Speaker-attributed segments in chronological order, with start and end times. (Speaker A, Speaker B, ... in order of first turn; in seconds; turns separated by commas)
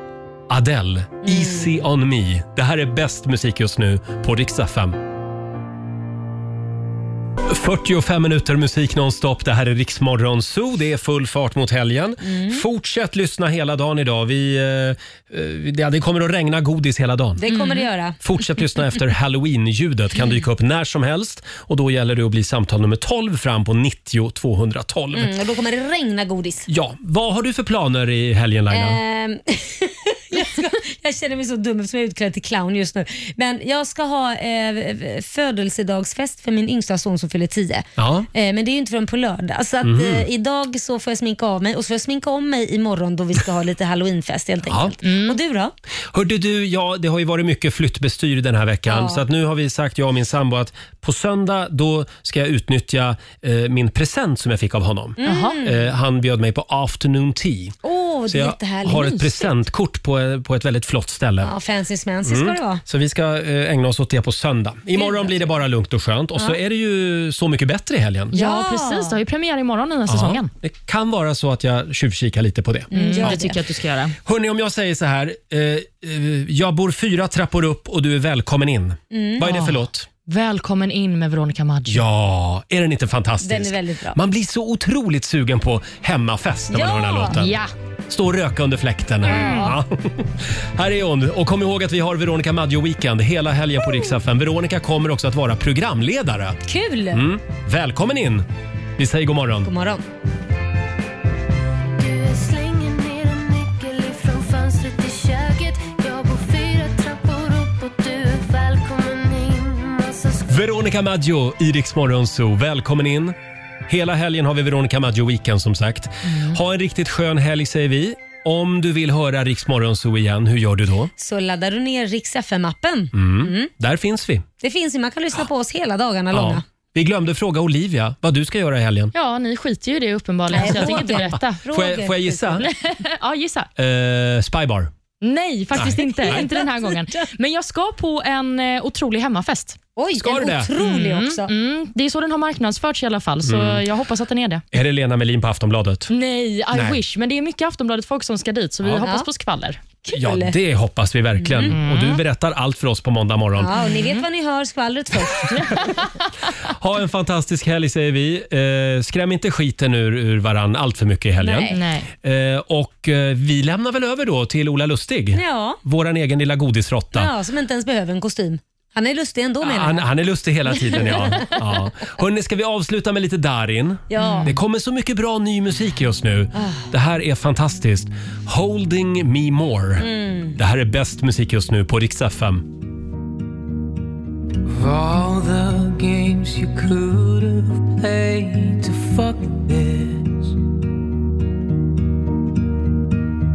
Speaker A: 0.5-5.0, Speaker B: 1.2-1.8, Speaker A: 7.5-17.4, Speaker B: 12.2-12.6, Speaker B: 17.4-18.2, Speaker C: 17.4-17.9, Speaker A: 18.2-25.3, Speaker B: 25.1-26.7, Speaker A: 26.7-29.0, Speaker B: 28.7-45.7, Speaker A: 38.0-38.3, Speaker A: 39.8-40.3, Speaker C: 45.0-45.4, Speaker A: 46.1-57.8, Speaker B: 48.9-49.2, Speaker B: 55.2-55.9, Speaker C: 55.2-55.6, Speaker B: 57.8-59.5, Speaker A: 58.3-61.5, Speaker B: 61.4-62.8, Speaker A: 62.2-68.4, Speaker C: 65.0-65.3, Speaker C: 68.3-70.5, Speaker B: 68.3-69.2, Speaker A: 70.1-73.5, Speaker B: 72.9-73.6, Speaker C: 72.9-74.2, Speaker A: 74.2-80.1, Speaker B: 79.1-79.8, Speaker C: 80.3-82.0, Speaker A: 81.9-87.6, Speaker B: 83.4-84.2, Speaker B: 86.7-87.3, Speaker C: 87.3-87.7, Speaker A: 88.1-96.6, Speaker C: 89.2-89.7, Speaker B: 89.2-89.8, Speaker B: 96.7-97.2, Speaker A: 97.1-98.5, Speaker A: 99.0-99.7, Speaker B: 99.7-100.0, Speaker D: 102.0-110.7, Speaker A: 110.5-113.3, Speaker A: 113.9-121.1, Speaker C: 116.3-116.6, Speaker B: 121.2-123.7, Speaker A: 123.1-124.5, Speaker B: 124.6-126.6, Speaker A: 126.3-129.1, Speaker C: 129.1-131.6, Speaker B: 130.5-132.7, Speaker A: 130.5-132.7, Speaker C: 132.7-133.7, Speaker A: 133.8-134.9, Speaker C: 135.2-139.8, Speaker A: 135.7-136.5, Speaker B: 135.8-136.9, Speaker B: 140.0-141.5, Speaker A: 140.2-140.7, Speaker C: 140.8-144.6, Speaker A: 143.4-143.9, Speaker A: 144.7-146.1, Speaker C: 146.1-149.8, Speaker A: 146.7-147.0, Speaker B: 149.0-149.3, Speaker B: 150.0-150.6, Speaker A: 150.1-153.9, Speaker B: 151.4-151.8, Speaker C: 151.7-152.2, Speaker B: 153.6-155.5, Speaker C: 153.7-154.2, Speaker A: 156.8-167.3, Speaker B: 161.4-161.8, Speaker C: 161.7-162.1, Speaker B: 165.3-165.8, Speaker B: 167.1-170.1, Speaker A: 169.6-182.7, Speaker B: 174.1-174.6, Speaker C: 174.2-174.5, Speaker B: 176.6-176.8, Speaker B: 180.0-180.6, Speaker E: 184.7-190.6